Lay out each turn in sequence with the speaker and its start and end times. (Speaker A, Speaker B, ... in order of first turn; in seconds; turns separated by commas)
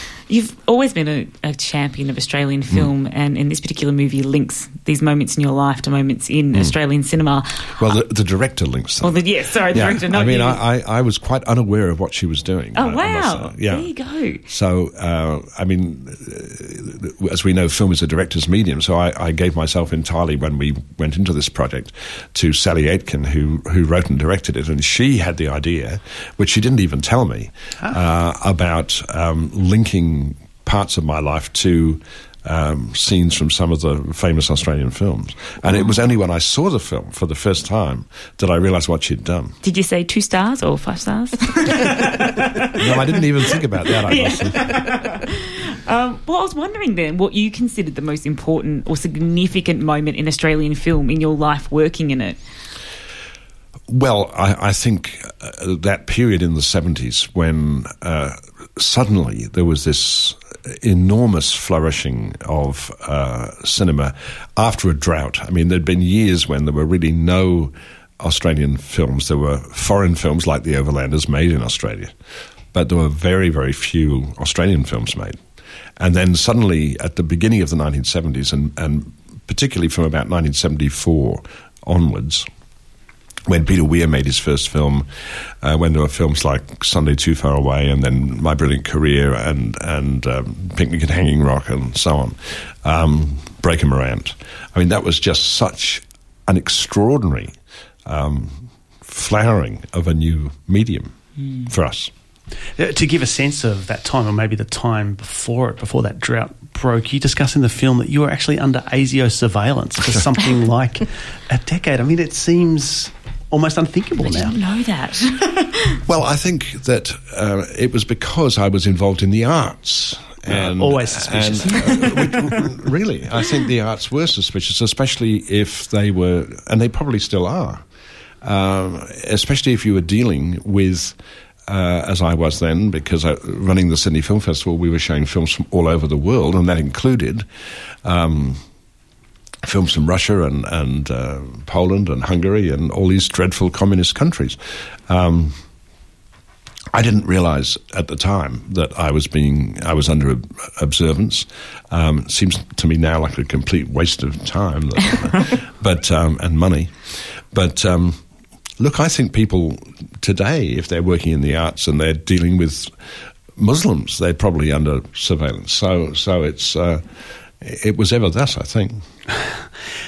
Speaker A: 0.3-7.8, Speaker B: 7.8-13.9, Speaker A: 9.0-10.6, Speaker A: 12.8-14.4, Speaker B: 14.5-39.6, Speaker A: 39.6-43.2, Speaker B: 42.7-44.8, Speaker A: 43.9-52.4, Speaker B: 53.9-72.1, Speaker B: 72.7-75.4, Speaker B: 76.0-82.5, Speaker B: 83.5-101.1, Speaker B: 101.7-102.1, Speaker C: 102.8-114.6, Speaker A: 114.2-116.0, Speaker B: 116.1-127.8, Speaker C: 120.5-122.7, Speaker B: 128.4-131.2, Speaker B: 131.7-137.5, Speaker B: 138.0-138.6, Speaker B: 139.6-145.6, Speaker B: 146.9-158.2, Speaker B: 158.8-162.9, Speaker B: 163.6-167.1, Speaker B: 167.6-169.1, Speaker C: 169.4-169.7